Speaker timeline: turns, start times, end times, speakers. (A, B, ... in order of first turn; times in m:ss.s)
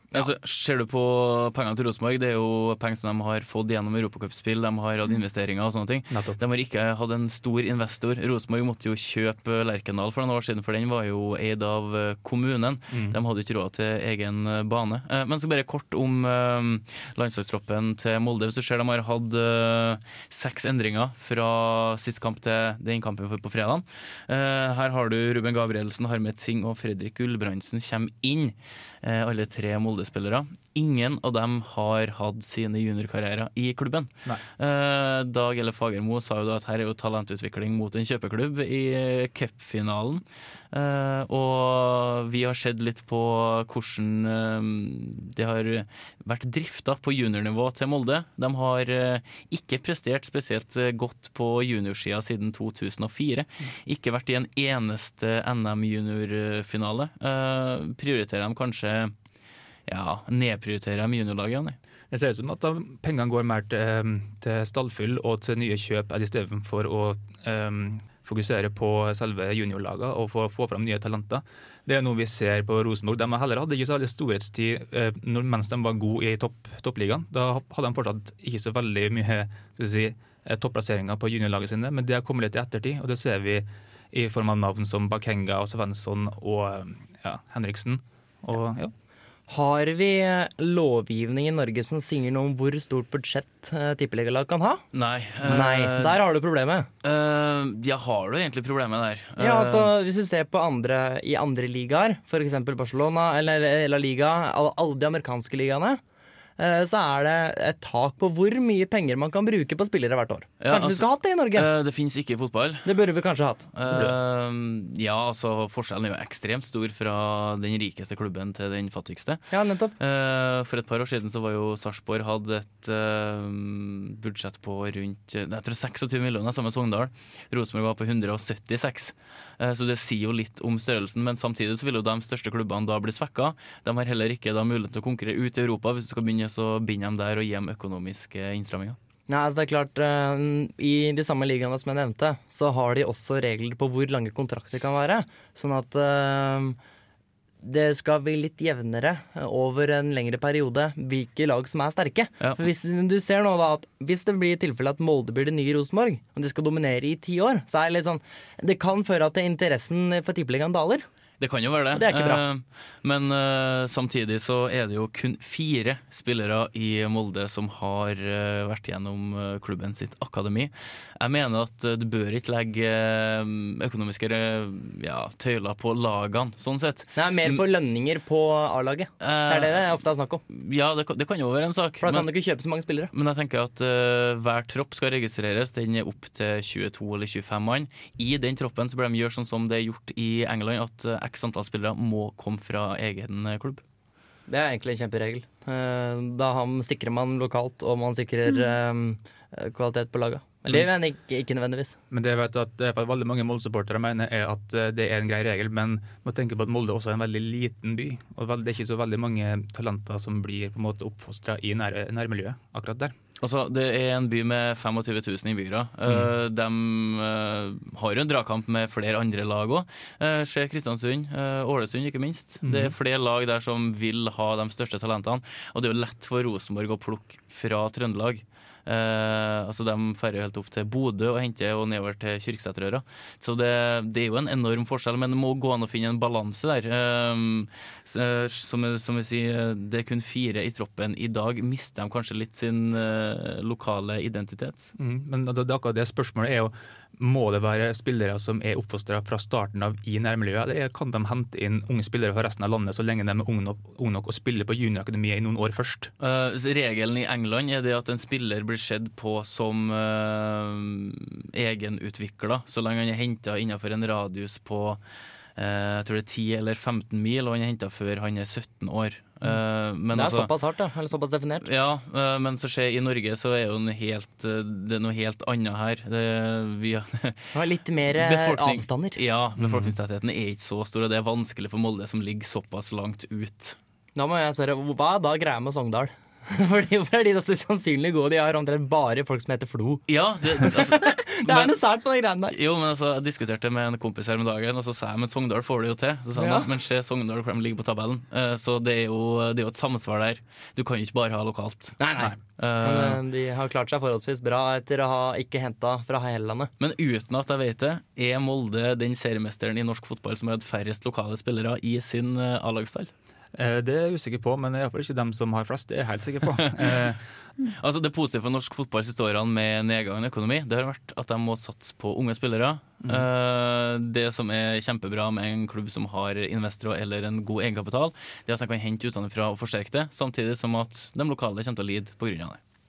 0:00.1-0:59.1 A
0:06.1-0:06.4 B
0:12.9-0:13.2 B
0:59.9-1:01.8 A
1:02.1-1:28.9 B
1:29.5-1:34.8 C
1:34.9-1:36.2 A
1:35.4-1:36.9 C
1:37.0-1:39.9 A
1:39.4-1:46.0 C
1:46.6-1:51.7 C
1:50.6-1:52.9 A
1:52.8-1:53.7 C
1:53.7-1:59.4 A
1:53.9-1:54.1 B
1:59.5-1:59.9 C
2:00.0-2:19.0 A
2:19.3-2:26.8 C
2:27.6-2:41.1 C
2:41.4-2:57.6 A
2:41.9-2:42.4 C
2:57.1-3:00.4 C
2:59.2-2:59.8 A
3:00.5-3:02.3 A
3:02.0-3:03.1 C
3:03.1-3:13.8 A
3:14.5-3:22.0 C
3:22.1-3:33.1 B
3:33.4-4:04.9 A
3:42.6-3:42.9 B
4:05.0-4:16.1 B
4:16.2-4:25.0 A
4:25.6-4:30.5 A
4:30.1-4:31.6 C
4:31.6-4:37.5 A
4:37.5-4:39.2 C
4:38.1-4:43.8 A
4:39.6-4:39.9 B
4:44.2-4:50.0 C
4:50.1-4:51.7 A
4:50.6-4:52.5 C
4:52.5-5:02.0 A
4:56.4-4:56.7 C
5:02.0-5:06.7 C
5:02.6-5:03.2 A
5:06.8-5:13.1 A
5:13.5-5:17.2 B
5:17.6-5:32.6 A